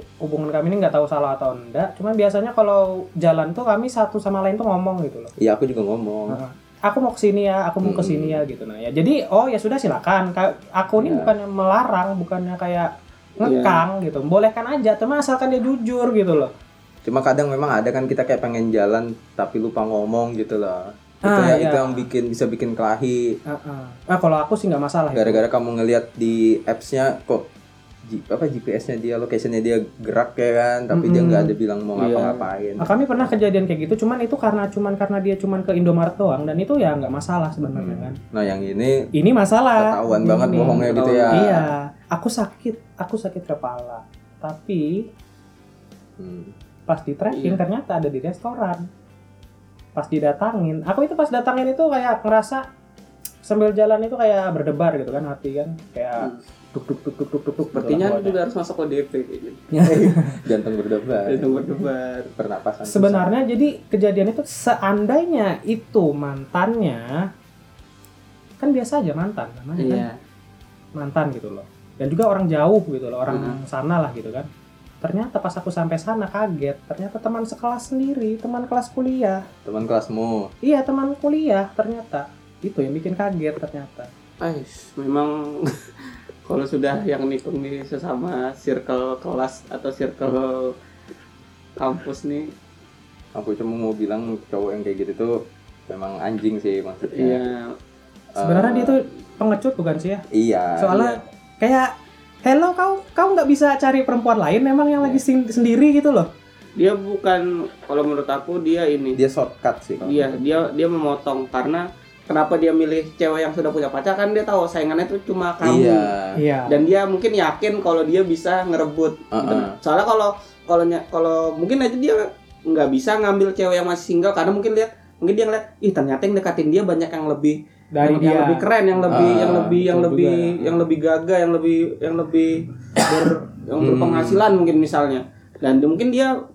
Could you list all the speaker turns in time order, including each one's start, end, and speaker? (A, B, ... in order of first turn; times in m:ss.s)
0:00.2-0:05.3 A
0:05.4-0:06.4 B
0:06.3-0:16.5 A
0:07.8-0:08.4 B
0:11.0-0:11.3 B
0:13.4-0:13.8 C
0:17.0-0:23.4 B
0:21.2-0:22.0 A
0:23.5-0:25.4 A
0:25.1-0:27.5 B
0:28.0-0:32.9 B
0:30.9-0:31.5 A
0:32.0-0:32.4 C
0:32.8-0:38.2 A
0:37.7-0:39.1 B
0:39.1-0:45.1 A
0:39.8-0:41.7 B
0:40.8-0:41.6 C
0:46.2-0:46.5 B
0:46.9-0:48.8 A
0:47.3-0:47.6 C
0:49.9-0:52.6 A
0:53.4-0:58.3 A
0:57.7-0:59.7 C
0:57.8-0:58.2 B
0:59.7-1:00.4 A
0:59.8-1:01.7 B
1:01.2-1:02.3 C
1:02.3-1:03.3 B
1:02.9-1:07.3 A
1:08.6-1:10.0 A
1:09.8-1:10.2 C
1:11.0-1:14.5 A
1:13.3-1:13.6 C
1:15.0-1:19.4 A
1:19.6-1:20.5 B
1:20.6-1:24.1 A
1:24.4-1:30.7 C
1:31.8-1:32.5 C
1:33.3-1:37.4 B
1:37.1-1:37.7 C
1:38.3-1:39.0 B
1:38.4-1:40.2 A
1:40.3-1:41.2 B
1:40.8-1:41.9 A
1:42.4-1:46.3 A
1:46.8-1:49.2 C
1:49.2-1:50.4 B
1:50.0-1:56.1 C
1:55.6-1:56.4 B
1:56.4-1:56.8 A
1:56.7-2:16.3 C
1:59.3-1:59.8 B
2:07.9-2:10.7 A
2:09.1-2:09.8 B
2:13.8-2:14.4 B